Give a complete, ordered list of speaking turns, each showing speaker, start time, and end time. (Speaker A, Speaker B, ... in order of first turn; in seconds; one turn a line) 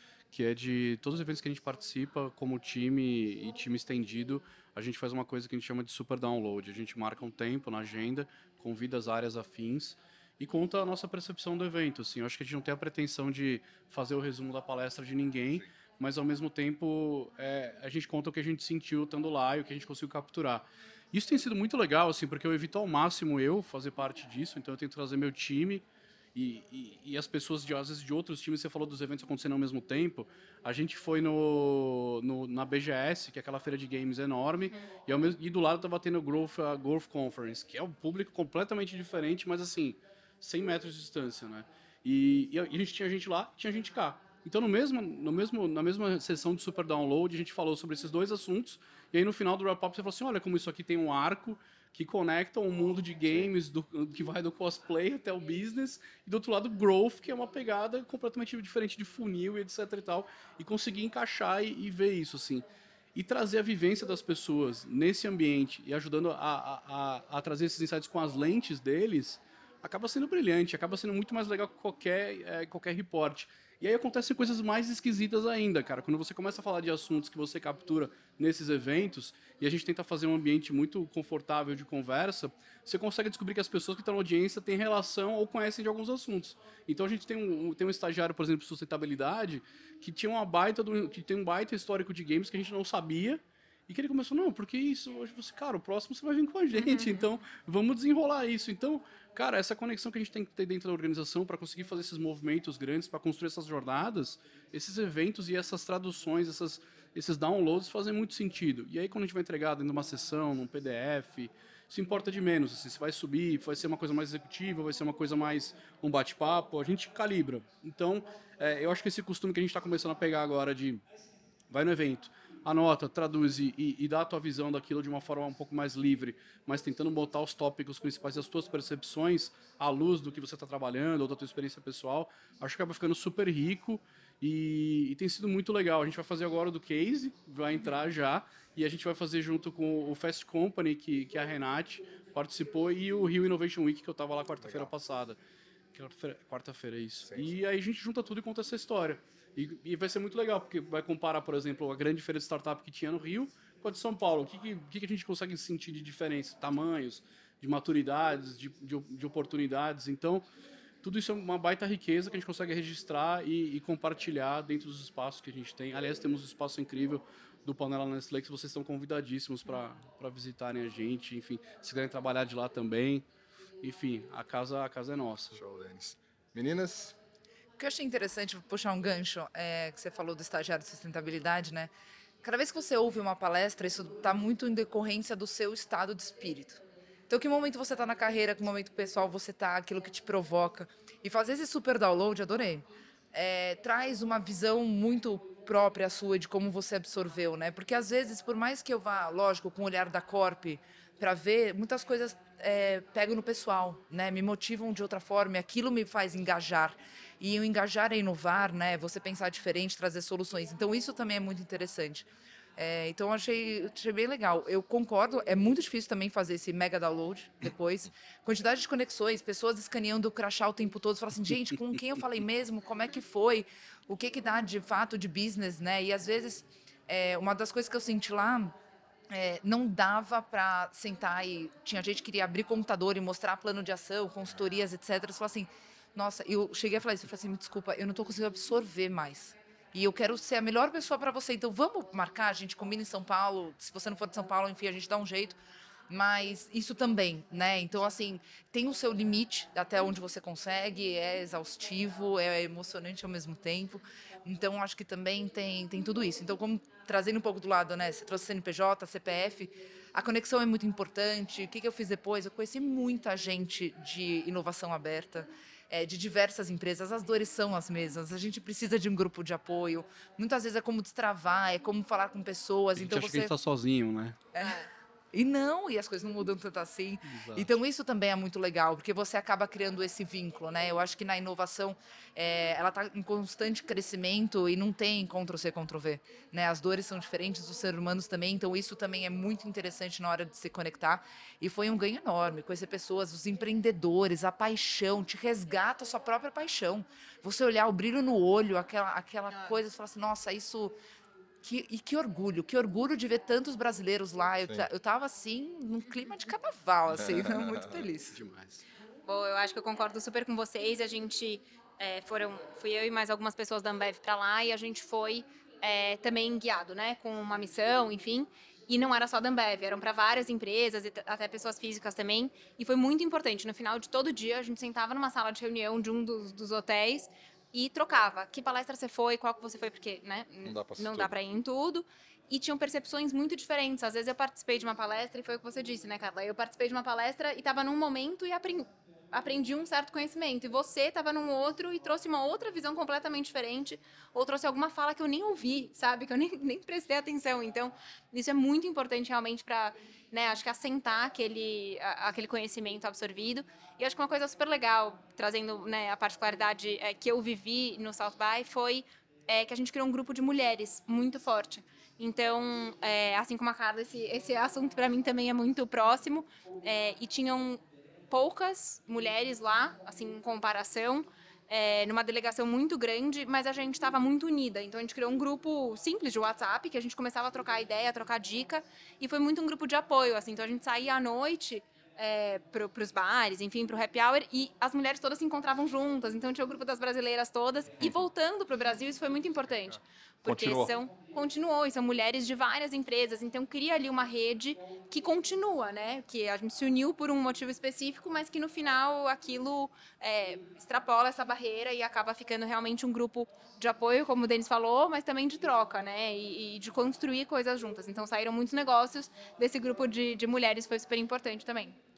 Speaker A: 0.3-121.0
Speaker B: 96.7-97.3
Speaker A: 121.7-145.4
Speaker C: 144.6-144.9
Speaker A: 145.9-160.5
Speaker A: 161.0-173.2
Speaker A: 173.8-175.6
Speaker C: 175.5-177.2
Speaker D: 177.8-181.9
Speaker D: 182.4-228.8
Speaker D: 229.3-245.6
Speaker D: 246.1-273.5
Speaker A: 273.0-274.4
Speaker D: 274.5-300.9
Speaker A: 277.2-277.8
Speaker D: 301.6-308.4
Speaker C: 307.2-307.9
Speaker A: 308.3-308.8
Speaker B: 309.2-412.0
Speaker C: 330.6-331.3
Speaker C: 390.5-390.9